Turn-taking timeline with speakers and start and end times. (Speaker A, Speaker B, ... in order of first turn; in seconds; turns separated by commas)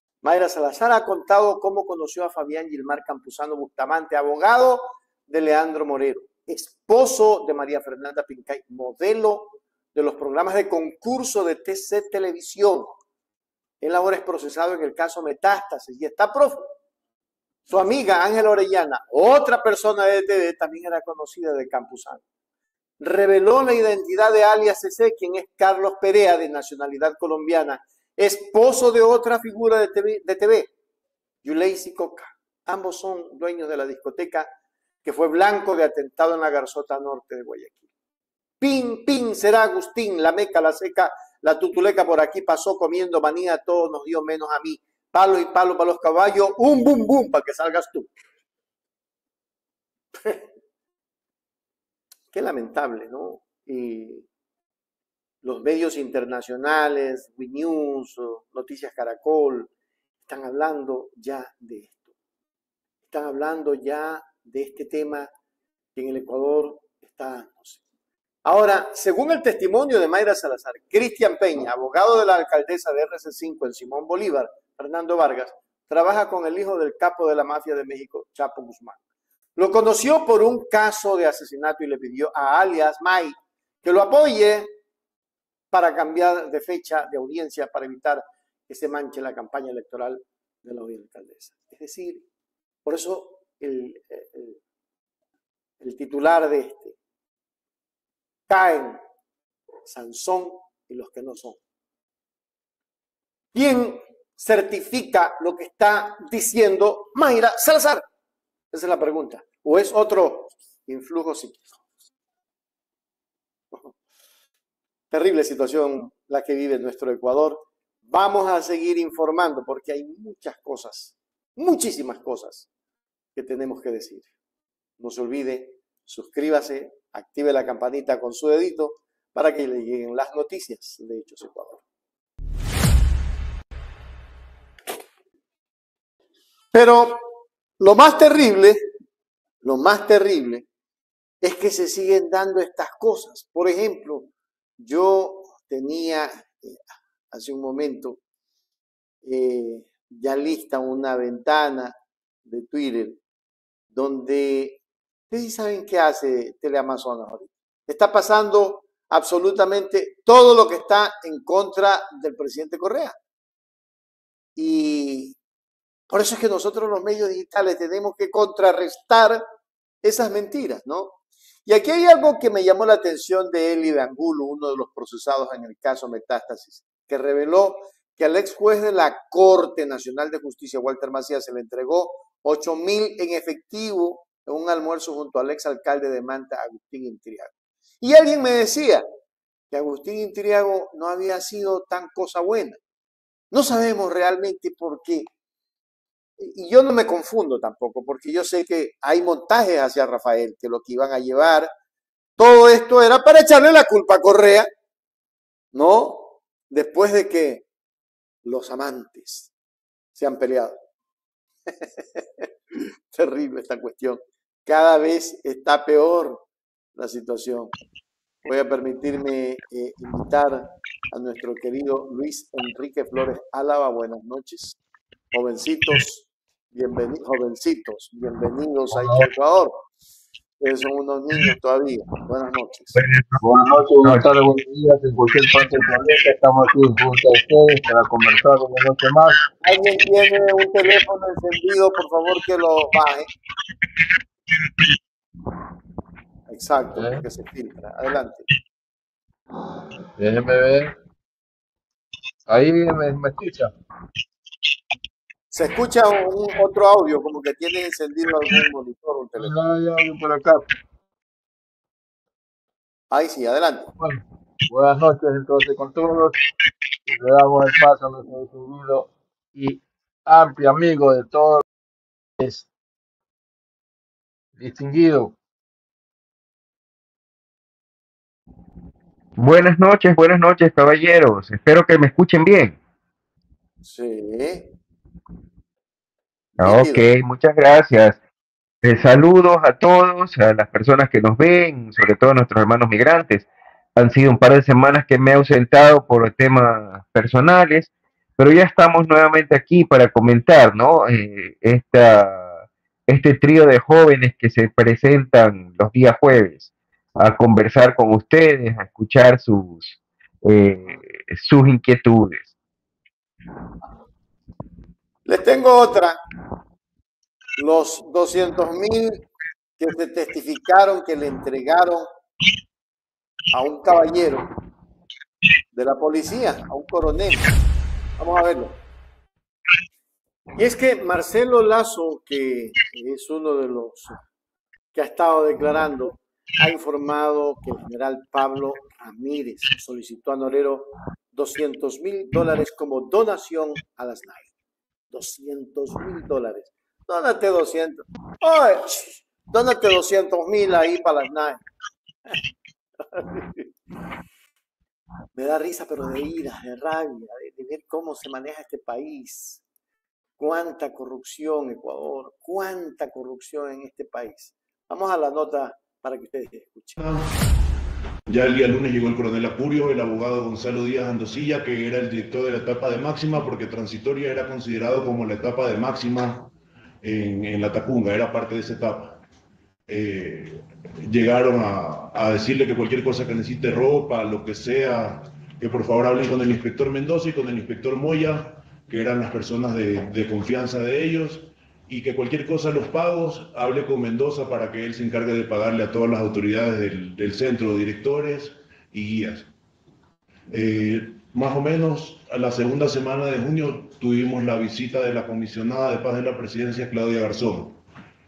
Speaker A: 0.2-13.0, Speaker A: 13.8-16.7, Speaker A: 17.7-22.2, Speaker A: 23.0-30.7, Speaker A: 31.4-34.5, Speaker A: 35.0-37.9, Speaker A: 38.6-48.1, Speaker A: 52.3-54.2, Speaker A: 55.4-59.7, Speaker A: 60.3-62.0, Speaker A: 63.1-65.3, Speaker A: 65.9-67.8, Speaker A: 68.4-79.0, Speaker A: 79.5-84.7, Speaker A: 85.7-92.2, Speaker A: 92.8-94.6, Speaker A: 95.8-97.0, Speaker A: 98.5-99.0, Speaker A: 99.8-101.6, Speaker A: 103.5-108.0, Speaker A: 108.7-111.8, Speaker A: 115.1-122.7, Speaker A: 123.3-124.3, Speaker A: 125.0-131.8, Speaker A: 136.7-137.3, Speaker A: 137.8-138.8, Speaker A: 139.6-140.7, Speaker A: 141.4-146.8, Speaker A: 147.3-148.2, Speaker A: 149.2-151.9, Speaker A: 152.4-153.2, Speaker A: 153.9-154.8, Speaker A: 155.3-163.2, Speaker A: 164.6-165.3, Speaker A: 166.1-169.4, Speaker A: 170.0-189.0, Speaker A: 189.7-192.8, Speaker A: 193.5-195.3, Speaker A: 196.4-201.7, Speaker A: 202.4-204.7, Speaker A: 205.7-207.6, Speaker A: 208.4-209.5, Speaker A: 210.1-210.8, Speaker A: 211.7-217.7, Speaker A: 218.4-224.8, Speaker A: 225.3-229.8, Speaker B: 228.9-229.3, Speaker A: 230.6-233.0, Speaker C: 232.9-233.4, Speaker B: 233.4-239.4, Speaker C: 234.0-234.2, Speaker A: 239.6-243.3, Speaker A: 246.5-248.5, Speaker B: 246.9-247.2, Speaker B: 250.2-250.9, Speaker B: 252.5-253.7, Speaker A: 255.5-259.5, Speaker B: 259.4-260.6, Speaker A: 263.1-263.9, Speaker B: 264.0-266.4, Speaker B: 267.1-271.6, Speaker B: 272.4-272.7, Speaker B: 274.6-275.4, Speaker C: 279.4-282.8, Speaker A: 283.8-284.7, Speaker A: 286.6-287.1, Speaker C: 286.6-288.2, Speaker C: 288.8-312.5, Speaker A: 315.2-316.2, Speaker A: 317.6-319.2, Speaker A: 319.8-322.1, Speaker A: 323.5-324.5, Speaker A: 325.7-327.5, Speaker A: 328.2-328.8, Speaker A: 330.5-334.1, Speaker A: 334.9-344.5, Speaker A: 345.1-351.6, Speaker A: 353.1-353.7, Speaker A: 355.3-359.6, Speaker A: 360.4-367.0, Speaker D: 367.0-367.3, Speaker D: 368.3-376.5, Speaker D: 377.0-379.2, Speaker D: 379.9-399.5, Speaker D: 400.5-407.8